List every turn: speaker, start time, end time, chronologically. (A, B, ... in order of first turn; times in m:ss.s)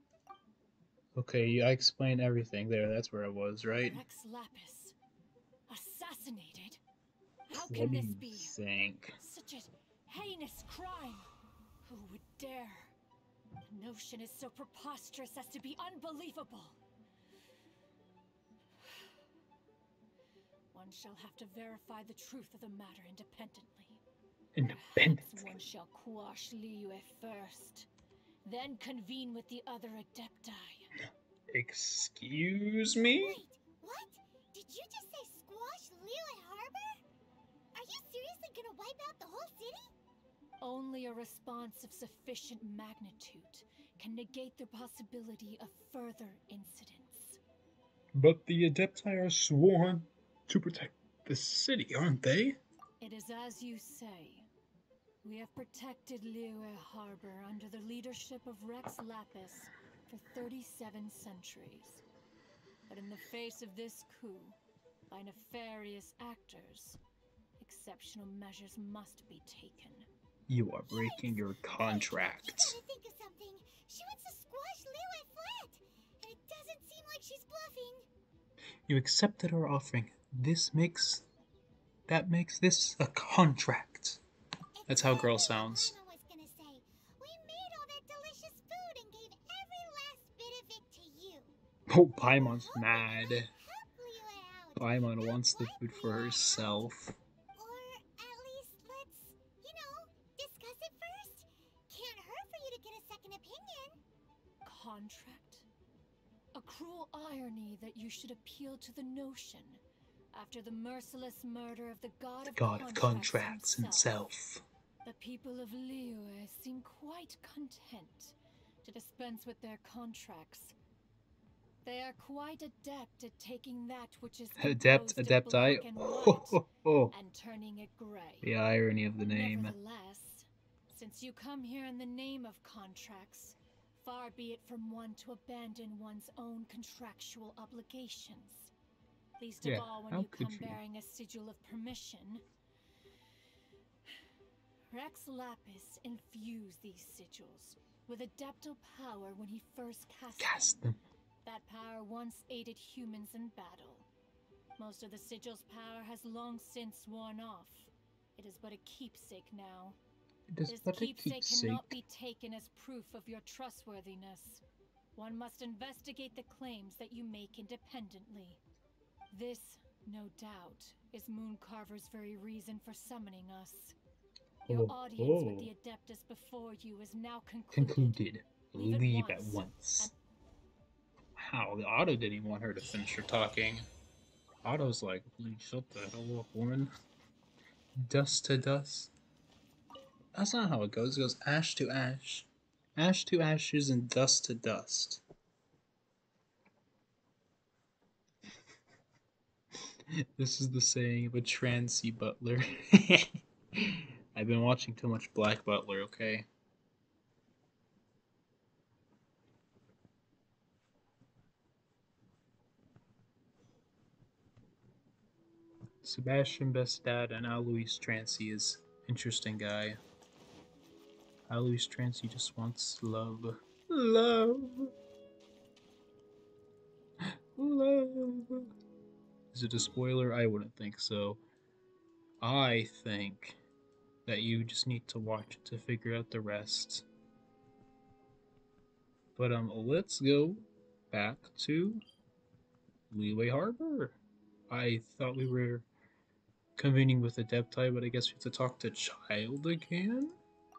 0:01.1-0:04.0 A
0:03.9-0:05.0 B
0:05.7-0:06.8 B
0:07.5-0:08.6 B
0:07.5-0:09.2 A
0:09.2-0:11.3 B
0:11.8-0:12.9 B
0:13.6-0:16.8 B
0:20.7-0:24.0 B
0:24.5-0:25.6 A
0:24.7-0:27.9 B
0:28.4-0:30.9 B
0:31.5-0:33.4 A
0:33.2-0:37.0 C
0:37.7-0:39.9 C
0:40.6-0:47.4 B
0:48.1-0:52.6 A
0:53.0-0:54.5 B
0:55.2-1:02.0 B
1:02.9-1:07.0 B
1:07.6-1:10.1 B
1:10.5-1:12.8 A
1:10.9-1:18.1 C
1:18.9-1:21.2 A
1:22.1-1:24.2 A
1:24.8-1:31.6 C
1:24.9-1:26.0 A
1:31.9-1:33.5 A
1:32.2-1:36.8 C
1:34.8-1:37.2 A
1:37.5-1:44.0 C
1:44.6-1:45.7 B
1:46.5-1:54.1 B
1:52.4-1:54.6 A
1:55.0-2:00.8 B
2:01.8-2:06.6 B
2:04.6-2:07.1 A
2:07.1-2:08.5 B
2:08.4-2:09.8 A
2:09.3-2:18.7 B
2:19.4-2:22.4 B
2:19.6-2:20.8 A
2:24.9-2:30.8 B
2:30.4-2:31.0 A
2:31.4-2:34.1 B
2:34.8-2:40.0 B
2:40.5-2:42.0 A
2:40.7-2:44.6 B
2:45.1-2:48.6 B
2:49.3-2:54.0 B
2:54.6-2:55.7 A
2:54.7-2:58.2 B
2:57.7-3:00.1 A
2:58.8-3:00.1 B
3:01.4-3:03.9 A
3:04.6-3:06.9 A
3:08.0-3:09.1 A
3:10.3-3:15.2 A
3:20.4-3:26.5 A
3:36.0-3:40.0 A
3:41.5-3:44.9 A
3:47.2-3:48.7 A
3:49.5-3:51.4 A
3:52.4-3:53.6 A
3:54.2-3:57.0 A
3:59.4-4:02.0 A
4:03.1-4:04.2 A
4:04.7-4:05.9 A
4:06.8-4:10.3 A